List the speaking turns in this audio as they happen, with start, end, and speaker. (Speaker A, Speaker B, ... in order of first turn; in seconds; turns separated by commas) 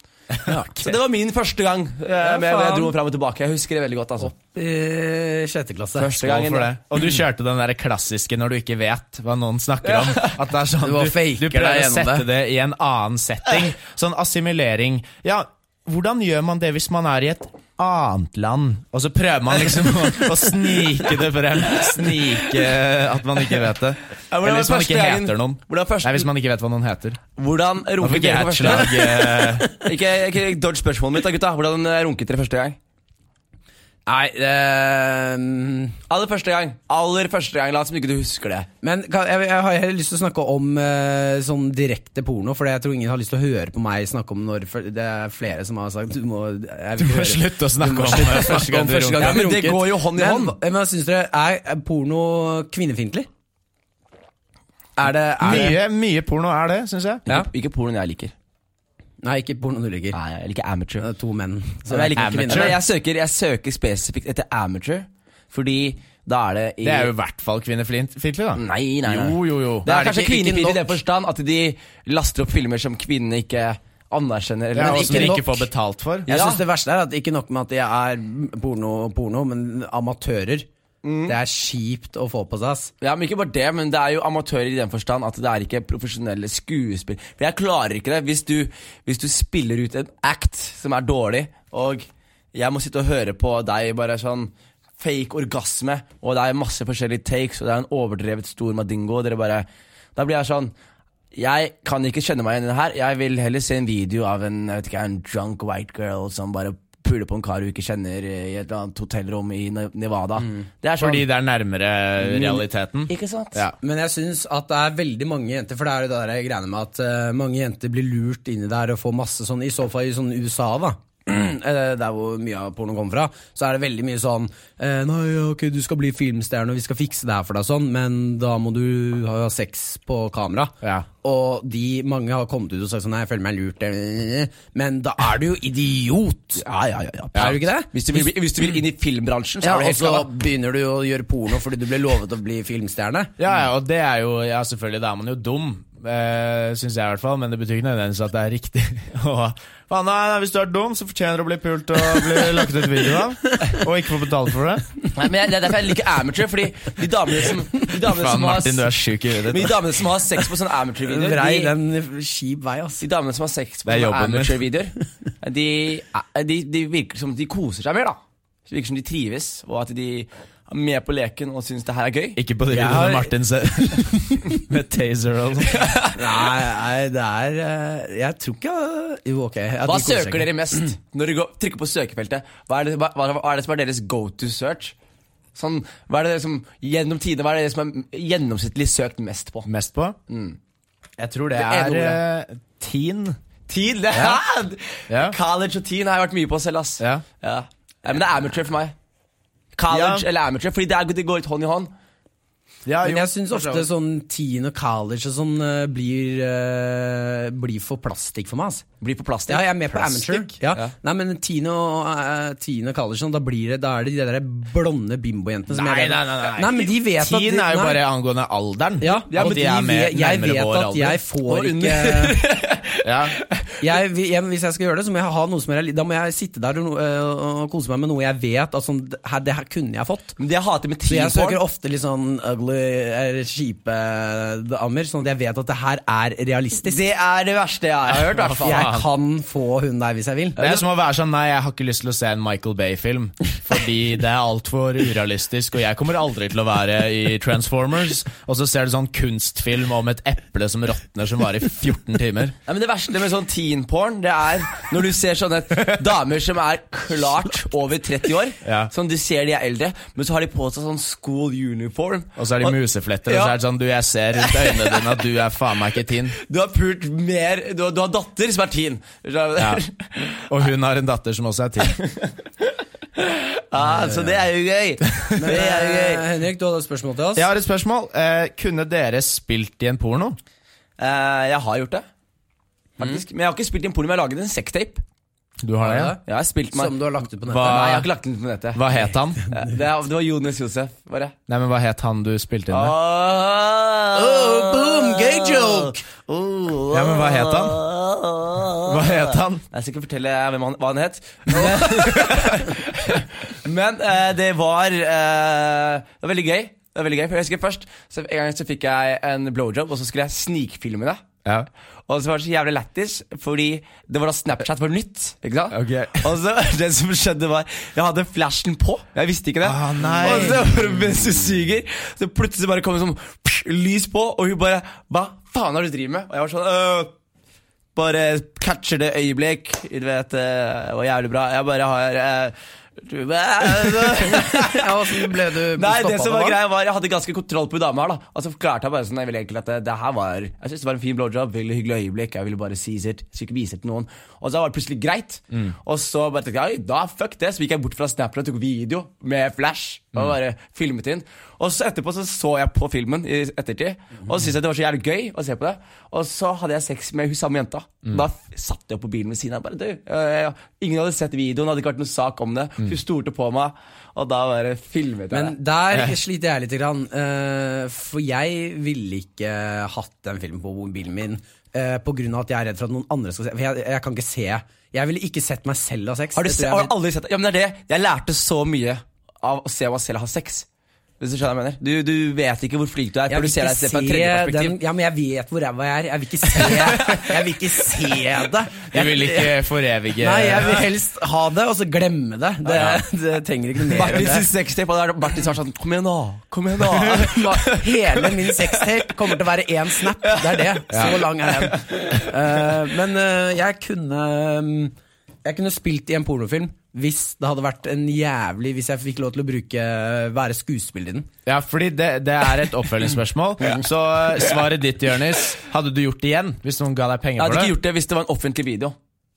Speaker A: 0.5-0.9, Speaker B: 0.8-4.3, Speaker A: 2.2-2.9, Speaker A: 4.2-6.1, Speaker B: 6.0-6.7, Speaker C: 6.2-27.2, Speaker B: 9.9-10.3, Speaker A: 10.8-12.2, Speaker B: 21.8-22.3, Speaker B: 24.3-26.3, Speaker B: 27.4-32.8, Speaker C: 28.0-29.7, Speaker A: 34.0-36.0, Speaker B: 36.1-38.7, Speaker A: 38.8-53.3, Speaker C: 47.0-49.4, Speaker B: 49.2-50.5, Speaker A: 55.0-55.8, Speaker C: 55.4-57.2, Speaker B: 57.3-58.3, Speaker A: 59.2-60.2, Speaker B: 60.1-61.1, Speaker A: 61.0-62.8, Speaker B: 61.9-67.1, Speaker C: 62.1-62.8, Speaker C: 66.8-69.9, Speaker B: 68.5-75.4, Speaker A: 69.8-71.0, Speaker C: 74.7-76.3, Speaker A: 74.8-75.7, Speaker B: 76.3-76.6, Speaker A: 76.3-80.7, Speaker B: 81.0-81.4, Speaker A: 81.2-82.9, Speaker B: 83.0-100.7, Speaker B: 101.3-111.2, Speaker C: 111.0-113.8, Speaker B: 112.2-113.6, Speaker A: 113.8-136.6, Speaker B: 136.6-140.3, Speaker A: 137.3-138.2, Speaker A: 139.6-143.3, Speaker C: 143.4-154.9, Speaker B: 155.1-158.9, Speaker C: 157.9-159.8, Speaker B: 159.4-161.7, Speaker A: 161.0-163.0, Speaker B: 163.0-172.4, Speaker C: 163.8-164.6, Speaker C: 172.3-175.9, Speaker A: 172.7-173.3, Speaker B: 175.7-176.2, Speaker A: 176.1-180.9, Speaker B: 179.8-184.9, Speaker B: 185.5-189.7, Speaker C: 189.7-190.2, Speaker B: 190.3-190.6, Speaker C: 191.2-193.4, Speaker B: 191.5-192.2, Speaker B: 193.7-198.9, Speaker C: 195.1-195.3, Speaker B: 199.8-201.9, Speaker C: 199.9-200.2, Speaker C: 202.8-203.9, Speaker A: 203.0-208.8, Speaker B: 209.0-210.9, Speaker A: 209.5-218.0, Speaker C: 215.7-221.2, Speaker A: 219.0-222.4, Speaker B: 219.3-219.7, Speaker B: 221.4-223.8, Speaker C: 223.0-223.4, Speaker A: 223.8-230.3, Speaker B: 230.4-231.6, Speaker A: 231.1-237.0, Speaker B: 236.8-238.9, Speaker C: 238.2-239.1, Speaker A: 238.6-240.7, Speaker C: 240.6-252.5, Speaker B: 252.7-263.6, Speaker C: 258.6-258.9, Speaker C: 262.4-266.4, Speaker B: 264.4-265.1, Speaker B: 266.4-270.6, Speaker C: 270.5-272.0, Speaker B: 271.9-272.3, Speaker B: 273.1-276.3, Speaker A: 275.4-277.5, Speaker C: 277.4-280.4, Speaker B: 281.0-282.0, Speaker B: 283.0-285.0, Speaker C: 285.6-286.1, Speaker A: 285.8-286.2, Speaker B: 286.2-286.9, Speaker A: 286.7-288.0, Speaker C: 287.5-288.1, Speaker B: 287.6-289.0, Speaker C: 288.7-289.4, Speaker B: 289.5-291.3, Speaker C: 291.5-292.9, Speaker B: 292.7-311.2, Speaker A: 294.1-296.0, Speaker C: 296.9-297.8, Speaker C: 298.8-299.6, Speaker A: 301.5-302.2, Speaker B: 312.1-327.1, Speaker C: 315.7-316.3, Speaker C: 319.6-320.6, Speaker B: 327.9-365.5, Speaker A: 334.1-336.6, Speaker A: 365.3-376.9, Speaker B: 376.4-380.6, Speaker B: 381.2-384.8, Speaker A: 383.3-389.6, Speaker B: 386.6-387.3, Speaker C: 388.9-390.8, Speaker A: 390.2-394.5, Speaker C: 392.7-393.0, Speaker B: 393.9-399.1, Speaker A: 396.9-404.9, Speaker B: 400.2-402.0, Speaker C: 400.9-401.2, Speaker A: 405.4-411.3, Speaker C: 411.4-417.7, Speaker B: 417.4-418.9